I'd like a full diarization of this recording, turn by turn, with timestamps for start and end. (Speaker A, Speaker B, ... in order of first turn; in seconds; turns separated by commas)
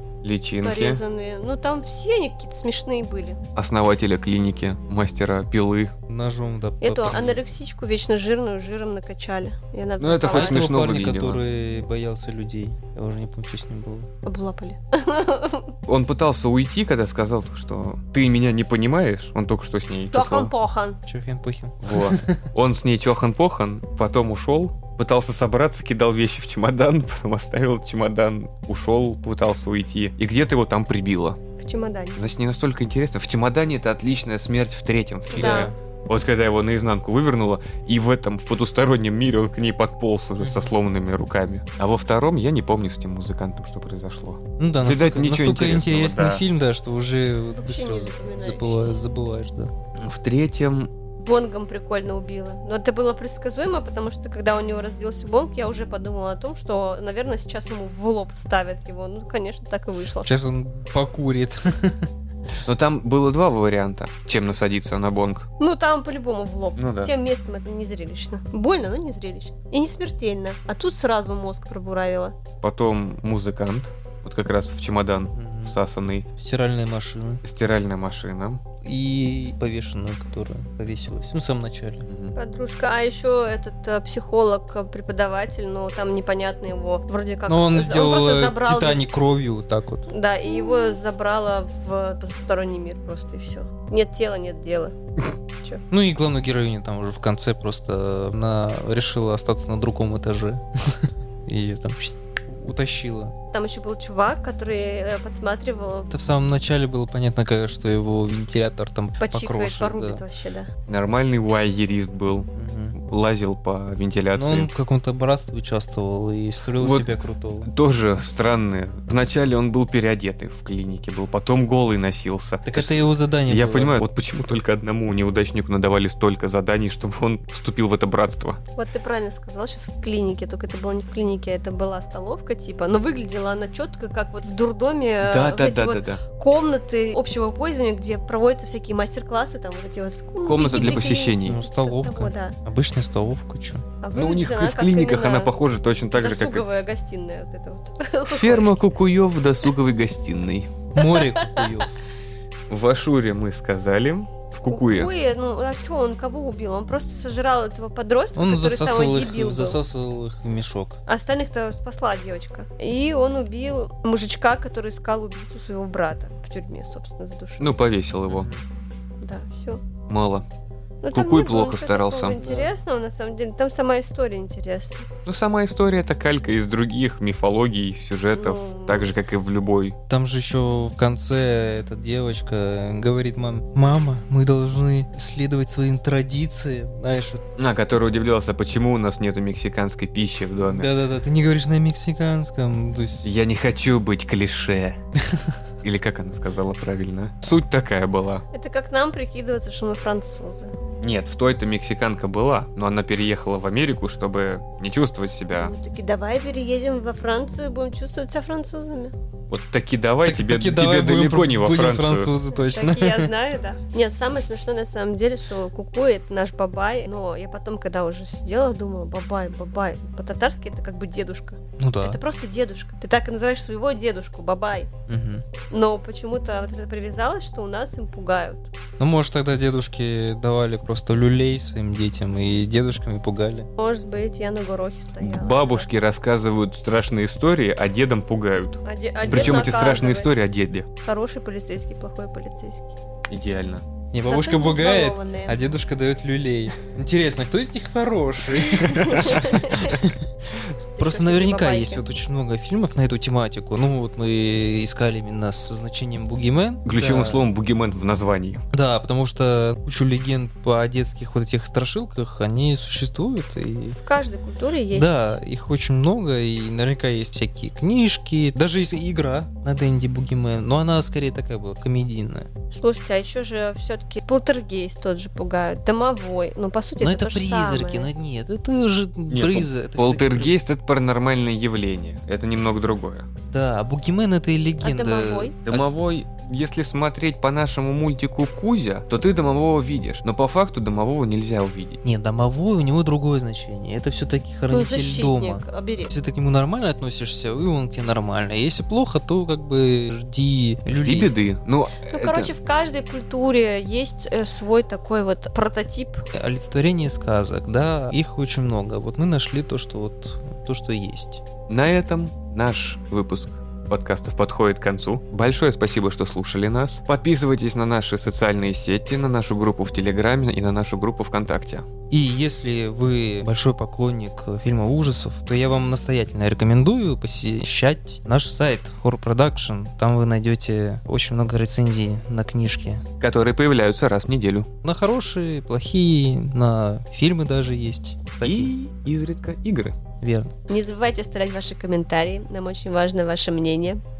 Speaker A: 0.2-1.0, Speaker B: 0.6-3.4, Speaker A: 3.5-5.9, Speaker C: 6.1-7.4, Speaker B: 6.8-10.6, Speaker A: 10.0-11.4, Speaker C: 10.3-14.1, Speaker B: 14.2-15.7, Speaker A: 15.9-20.5, Speaker B: 20.1-21.0, Speaker C: 21.1-22.4, Speaker A: 21.8-31.4, Speaker B: 31.6-32.2, Speaker A: 32.2-46.4, Speaker B: 35.3-35.7, Speaker C: 35.3-35.7, Speaker C: 40.4-40.7, Speaker C: 44.6-49.7, Speaker B: 47.6-49.0, Speaker A: 49.9-50.9, Speaker B: 51.2-60.3, Speaker C: 60.2-62.1, Speaker A: 62.6-65.5, Speaker B: 65.6-72.3, Speaker A: 66.8-67.1, Speaker A: 72.6-76.2, Speaker C: 75.3-75.8, Speaker C: 76.3-77.4, Speaker A: 77.4-78.6, Speaker C: 78.8-82.1, Speaker A: 82.1-82.3, Speaker B: 82.3-89.0, Speaker C: 87.5-90.1, Speaker B: 90.1-94.9, Speaker C: 95.9-103.3, Speaker B: 103.5-106.1, Speaker C: 106.1-110.2, Speaker B: 109.2-110.7, Speaker A: 110.9-114.7, Speaker C: 112.5-113.0, Speaker C: 114.3-117.7, Speaker A: 116.8-128.6, Speaker C: 122.6-124.0, Speaker B: 128.8-142.6, Speaker A: 135.2-136.2, Speaker A: 140.4-141.6, Speaker C: 140.5-143.8, Speaker B: 144.0-145.5, Speaker A: 144.1-146.7, Speaker B: 146.1-148.8, Speaker A: 148.3-150.7, Speaker C: 150.9-151.9, Speaker B: 151.0-151.8, Speaker A: 152.7-155.1, Speaker B: 154.7-159.8, Speaker C: 158.3-161.0, Speaker B: 161.1-167.8, Speaker A: 167.6-168.5, Speaker C: 168.3-168.6, Speaker B: 169.2-169.8, Speaker A: 170.1-170.4, Speaker B: 171.0-175.1, Speaker A: 171.1-172.4, Speaker C: 172.3-172.7, Speaker A: 175.2-179.9, Speaker B: 178.3-179.1, Speaker C: 180.1-187.4, Speaker A: 187.6-190.9, Speaker C: 190.7-193.3, Speaker A: 193.2-195.0, Speaker A: 195.8-198.4, Speaker B: 198.5-200.7, Speaker A: 201.0-205.7, Speaker B: 205.5-209.1, Speaker A: 209.5-212.3, Speaker C: 210.2-213.3, Speaker B: 212.6-224.9, Speaker C: 221.8-222.2, Speaker C: 225.1-225.4, Speaker B: 225.7-228.7, Speaker C: 229.0-233.7, Speaker B: 233.8-236.0, Speaker A: 235.2-240.9, Speaker B: 238.8-240.3, Speaker B: 241.0-242.9, Speaker A: 243.3-243.8, Speaker C: 244.1-250.2, Speaker B: 244.3-245.6, Speaker B: 248.9-250.0, Speaker A: 248.9-249.3, Speaker B: 251.0-252.0, Speaker C: 251.0-257.4, Speaker A: 256.8-258.6, Speaker C: 258.7-264.0, Speaker B: 264.0-265.4, Speaker C: 264.9-272.5, Speaker B: 272.7-278.1, Speaker C: 277.0-280.5, Speaker A: 279.3-283.3, Speaker C: 283.5-285.8, Speaker B: 284.8-285.6, Speaker A: 285.6-292.0, Speaker C: 292.0-301.3, Speaker B: 294.7-296.1, Speaker A: 300.9-302.5, Speaker B: 302.1-306.2, Speaker C: 306.3-311.4, Speaker A: 311.7-321.9, Speaker C: 322.1-333.0, Speaker A: 333.2-334.7, Speaker C: 334.8-338.7, Speaker A: 338.4-339.9, Speaker C: 340.2-340.5, Speaker B: 340.7-344.0